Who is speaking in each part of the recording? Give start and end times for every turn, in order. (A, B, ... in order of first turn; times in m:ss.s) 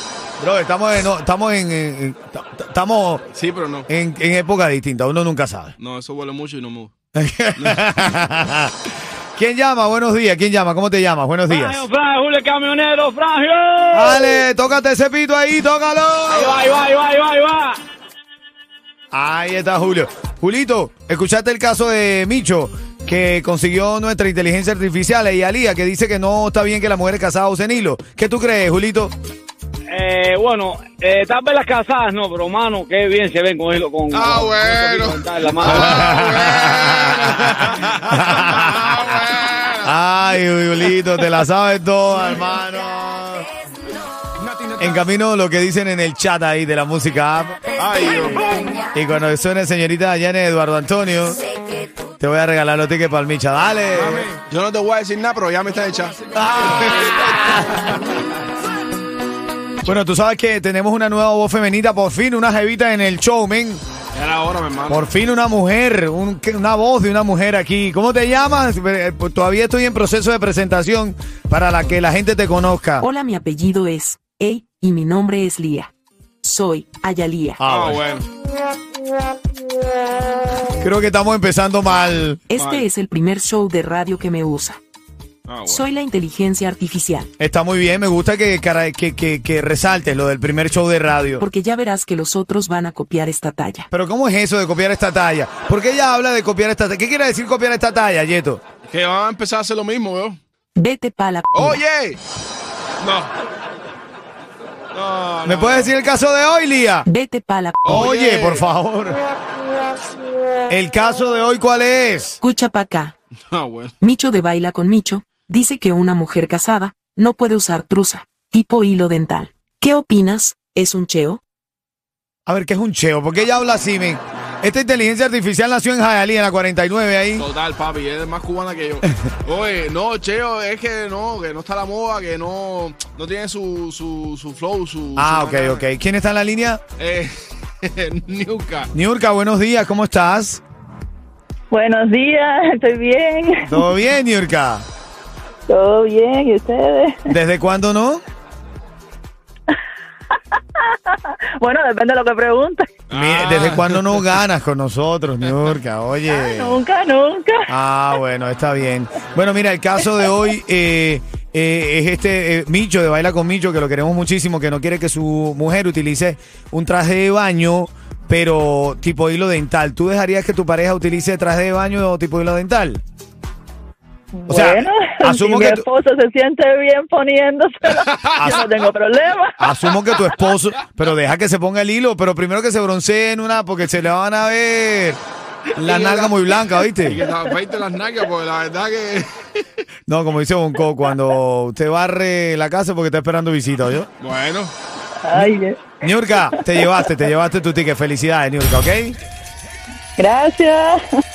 0:00.4-0:03.2 A
0:03.3-0:03.9 B
0:03.9-0:05.7 A
0:05.8-0:06.9 B
0:07.1-0:08.7 A
0:07.5-0:08.0 B
0:09.4-0:11.8 A
0:11.5-0:14.4 C
0:13.9-0:16.6 A
0:16.3-0:17.8 C
0:19.1-0:29.1 A
0:29.9-0:36.4 C
0:34.1-0:39.9 B
0:35.6-0:38.9 A
0:39.8-0:43.5 A
0:44.4-0:45.0 B
0:44.8-0:47.6 A
0:47.8-0:48.8 B
0:48.9-0:51.4 A
0:52.2-0:54.3 A
0:53.9-0:57.9 B
0:56.3-0:57.9 A
0:59.8-1:03.8 A
1:04.1-1:05.1 B
1:04.9-1:13.0 A
1:13.0-1:17.6 D
1:17.6-1:18.0 A
1:17.6-1:18.2 B
1:20.8-1:22.4 A
1:22.5-1:24.8 D
1:22.6-1:22.8 B
1:25.4-1:25.8 B
1:25.7-1:27.3 D
1:27.4-1:31.4 A
1:31.4-1:33.9 D
1:33.9-1:38.6 A
1:38.9-1:40.4 B
1:40.7-1:41.8 D
1:41.5-1:42.2 B
1:43.0-1:43.3 B
1:44.9-1:45.9 B
1:45.4-1:47.1 A
1:47.0-1:48.0 D
1:47.8-1:48.6 B
1:47.8-1:49.2 A
1:50.7-1:52.4 A
1:52.4-1:53.1 D
1:53.5-1:53.9 B
1:54.0-2:01.4 D
2:02.4-2:07.4 A
2:07.4-2:15.8 B
2:15.2-2:16.8 A
2:17.0-2:18.9 B
2:18.9-2:20.6 A
2:21.7-2:23.8 E
2:23.6-2:24.8 A
2:25.7-2:27.3 E
2:27.3-2:28.2 A
2:30.8-2:33.0 E
2:33.1-2:34.4 B
2:33.1-2:36.8 A
2:36.3-2:37.7 E
2:37.7-2:53.0 A
2:54.3-2:59.7 E
2:54.5-2:55.9 A
2:58.1-2:58.9 B
2:58.4-2:58.7 A
2:59.6-3:05.2 A
3:05.8-3:07.2 A
3:05.8-3:09.3 B
3:10.1-3:14.1 A
3:14.2-3:14.7 B
3:15.2-3:16.6 E
3:15.3-3:19.2 A
3:20.2-3:21.0 E